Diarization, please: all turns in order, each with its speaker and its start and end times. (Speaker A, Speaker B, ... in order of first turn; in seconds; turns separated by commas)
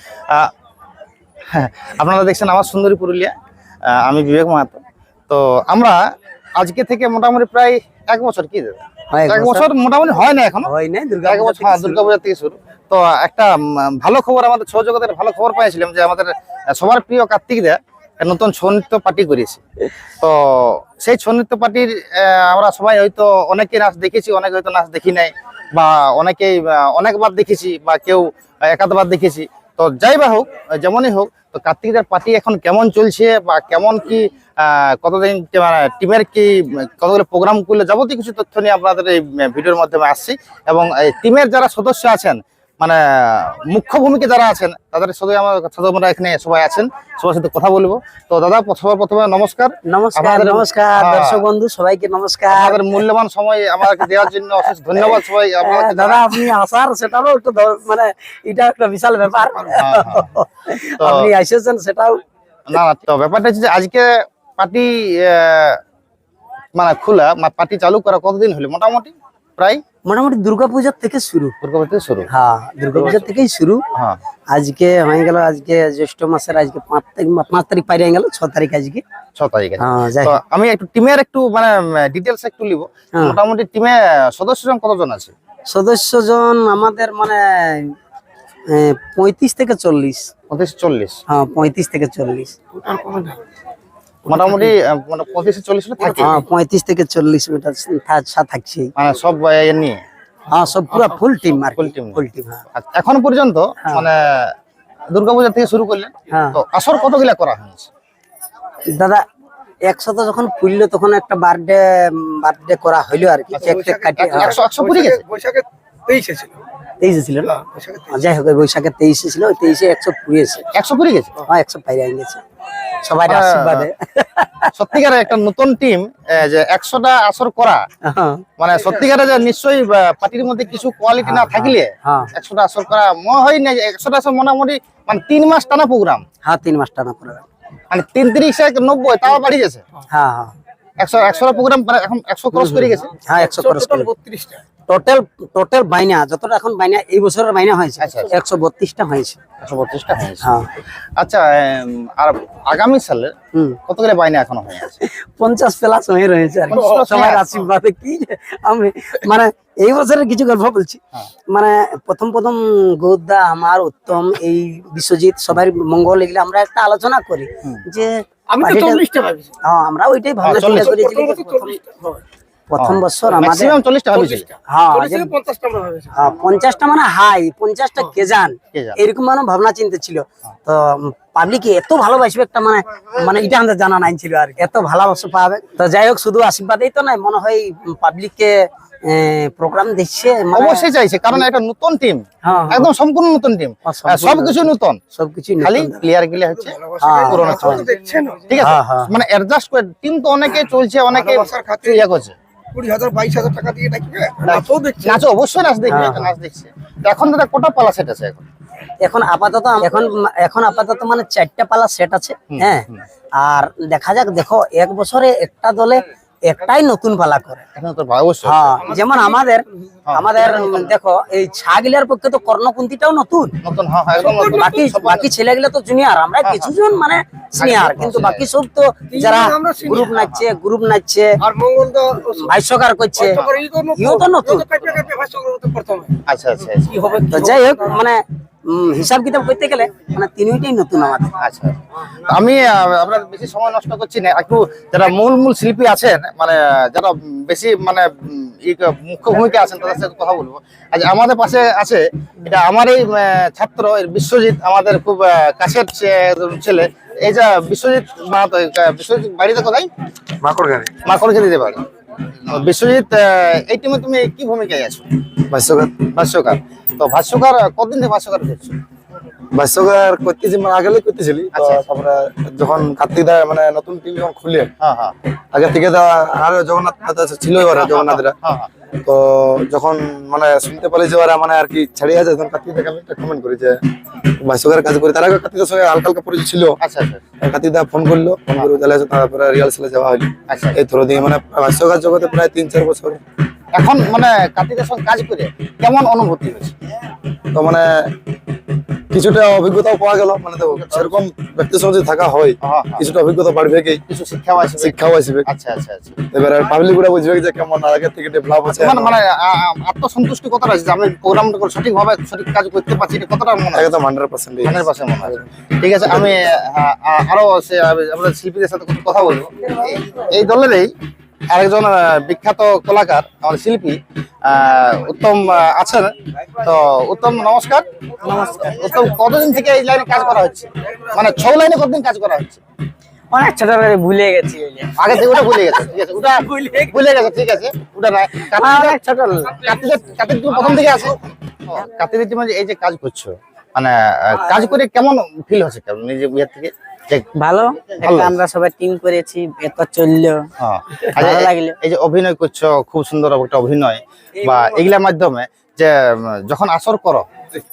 Speaker A: 1.5-3.3, Speaker A: 3.9-6.0, Speaker A: 6.6-10.7, Speaker B: 9.1-9.7, Speaker B: 10.6-12.0, Speaker A: 11.2-19.6, Speaker A: 20.2-51.4, Speaker B: 49.9-53.0, Speaker A: 52.5-56.4, Speaker B: 53.8-62.2, Speaker A: 59.7-60.3, Speaker A: 61.0-61.3, Speaker A: 62.7-65.8, Speaker A: 66.7-69.8, Speaker B: 70.0-71.5, Speaker A: 71.6-72.3, Speaker B: 72.3-73.8, Speaker A: 73.0-73.3, Speaker B: 74.5-79.0, Speaker A: 79.3-85.3, Speaker B: 79.8-80.4, Speaker B: 85.7-88.0, Speaker B: 88.7-90.3, Speaker A: 90.5-91.2, Speaker B: 91.3-92.6, Speaker C: 93.0-93.2, Speaker A: 94.3-96.4, Speaker B: 94.3-94.7, Speaker B: 96.0-98.9, Speaker A: 99.0-100.0, Speaker B: 100.5-102.6, Speaker A: 101.8-102.2, Speaker A: 102.7-104.5, Speaker A: 105.1-107.9, Speaker B: 106.3-106.6, Speaker B: 108.9-109.2, Speaker B: 109.8-114.6, Speaker A: 114.2-115.2, Speaker C: 114.9-116.6, Speaker B: 117.0-120.7, Speaker C: 117.7-118.1, Speaker A: 120.7-121.4, Speaker B: 121.5-122.4, Speaker B: 123.0-125.0, Speaker A: 123.3-123.9, Speaker A: 124.7-127.8, Speaker B: 128.1-128.4, Speaker A: 128.6-136.2, Speaker B: 131.2-132.3, Speaker B: 136.4-137.4, Speaker A: 137.9-139.8, Speaker B: 140.1-140.5, Speaker A: 141.0-143.1, Speaker B: 142.5-144.1, Speaker C: 143.6-144.6, Speaker B: 144.9-149.4, Speaker A: 148.0-148.3, Speaker A: 149.6-150.5, Speaker A: 151.2-153.3, Speaker A: 153.8-155.0, Speaker B: 155.0-169.0, Speaker A: 156.7-157.4, Speaker C: 168.6-169.5, Speaker B: 169.6-173.7, Speaker A: 170.4-171.0, Speaker A: 172.8-174.5, Speaker C: 174.2-174.5, Speaker B: 174.7-175.3, Speaker C: 175.1-176.1, Speaker B: 176.1-191.4, Speaker A: 178.7-179.0, Speaker A: 190.5-195.0, Speaker B: 192.4-192.9, Speaker B: 193.8-196.0, Speaker A: 195.6-197.9, Speaker B: 197.0-197.9, Speaker C: 197.9-198.4, Speaker A: 198.5-202.3, Speaker B: 198.6-199.1, Speaker C: 201.3-201.9, Speaker C: 202.7-205.0, Speaker A: 204.4-208.4, Speaker B: 205.9-206.3, Speaker B: 209.0-212.8, Speaker A: 212.5-213.0, Speaker B: 213.4-217.6, Speaker A: 217.7-218.8, Speaker B: 218.4-223.5, Speaker A: 220.1-220.9, Speaker A: 223.6-225.3, Speaker B: 224.3-231.4, Speaker A: 226.4-226.7, Speaker A: 227.6-228.5, Speaker C: 229.3-229.7, Speaker A: 229.8-230.4, Speaker C: 231.5-232.4, Speaker B: 232.3-234.8, Speaker C: 233.6-234.6, Speaker D: 235.0-235.3, Speaker C: 235.2-236.2, Speaker A: 236.2-237.3, Speaker B: 237.0-241.3, Speaker A: 241.4-259.9, Speaker D: 260.4-260.9, Speaker A: 261.0-261.8, Speaker A: 262.4-265.1, Speaker D: 265.5-266.1, Speaker A: 266.1-268.8, Speaker D: 269.5-274.7, Speaker A: 271.5-271.8, Speaker A: 274.8-275.1, Speaker D: 275.5-278.4, Speaker A: 277.6-278.7, Speaker D: 279.0-286.8, Speaker A: 286.8-287.2, Speaker D: 287.4-293.2, Speaker A: 290.5-290.8, Speaker A: 293.7-296.7, Speaker D: 297.5-298.2, Speaker D: 299.1-304.0, Speaker A: 300.8-301.2, Speaker A: 302.6-303.1, Speaker A: 304.1-306.2, Speaker D: 304.8-305.4, Speaker D: 306.3-309.2, Speaker A: 308.7-313.9, Speaker D: 313.7-315.4, Speaker A: 314.6-320.9, Speaker A: 321.5-332.6, Speaker B: 333.3-335.5, Speaker A: 334.9-339.0, Speaker B: 336.5-336.8, Speaker B: 338.6-339.5, Speaker A: 339.5-347.3, Speaker B: 347.4-350.5, Speaker A: 348.0-348.4, Speaker A: 350.6-357.2, Speaker B: 351.1-351.7